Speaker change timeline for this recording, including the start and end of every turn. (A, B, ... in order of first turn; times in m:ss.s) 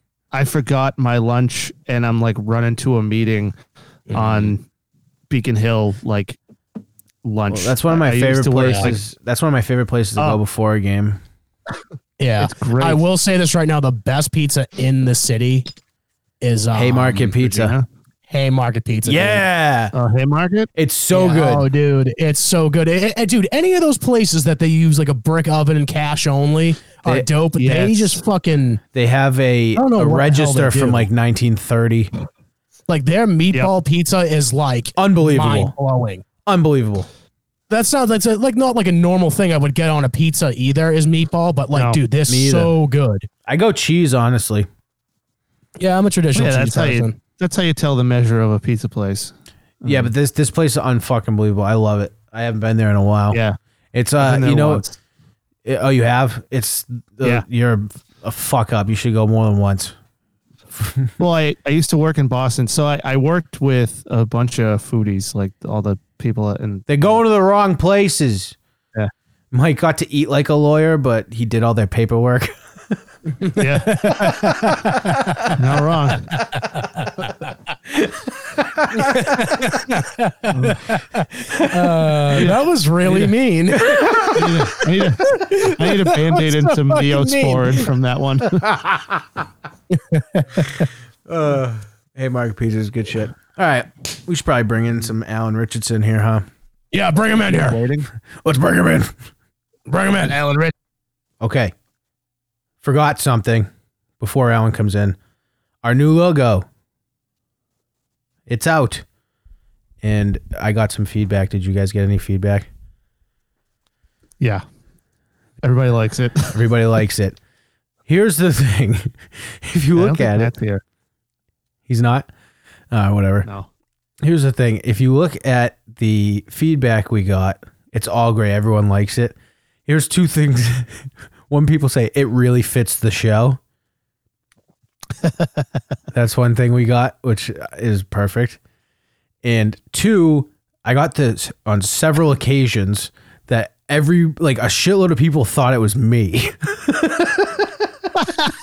0:00.3-0:03.5 A
0:04.1-0:04.5 B
0:04.1-0:04.6 A
0:05.3-0:06.4 A
0:07.2-0:09.0 A
0:07.5-0:11.2 C
0:12.2-0:15.7 B
0:12.4-0:13.0 A
0:16.4-0:17.3 B
0:16.7-0:17.7 C
0:17.3-0:17.8 A
0:18.3-0:19.4 B
0:19.0-0:19.9 C
0:19.9-0:20.7 A
0:20.8-0:21.7 C
0:21.1-0:28.8 B
0:27.6-0:28.2 A
0:28.9-0:32.1 C
0:29.8-0:31.1 B
0:32.9-0:36.2 B
0:35.0-0:35.7 C
0:36.4-0:37.1 C
0:37.7-0:43.3 B
0:41.7-0:42.0 A
0:42.3-0:42.7 C
0:43.5-0:44.7 C
0:45.8-0:47.2 B
0:46.3-0:50.1 A
0:49.8-0:53.4 C
0:53.3-0:53.6 A
0:53.9-0:54.8 C
0:54.2-0:54.9 A
0:55.6-0:59.9 C
1:00.8-1:01.1 C
1:01.2-1:07.2 A
1:06.9-1:08.6 C
1:09.5-1:12.5 C
1:13.5-1:15.5 B
1:13.6-1:14.1 A
1:15.5-1:16.3 A
1:16.6-1:17.5 B
1:18.6-1:19.3 C
1:19.0-1:24.4 B
1:20.5-1:20.8 A
1:22.0-1:22.4 C
1:23.9-1:24.5 C
1:24.3-1:28.6 A
1:25.2-1:27.8 B
1:28.6-1:29.2 C
1:29.9-1:30.8 B
1:31.3-1:36.4 C
1:36.9-1:37.8 B
1:37.6-1:38.0 A
1:38.4-1:39.1 C
1:39.9-1:40.7 B
1:41.4-1:41.7 C
1:42.8-1:43.7 C
1:44.2-1:45.2 C
1:45.8-1:46.6 C
1:48.5-1:49.0 C
1:50.0-1:52.7 C
1:55.6-1:56.6 A
1:56.5-1:57.4 C
1:58.1-2:00.5 C
1:59.9-2:00.8 A
2:01.9-2:02.3 C
2:02.9-2:03.5 C
2:03.4-2:03.7 A
2:04.2-2:09.4 C
2:09.9-2:13.6 C
2:16.1-2:18.6 C
2:19.4-2:27.7 C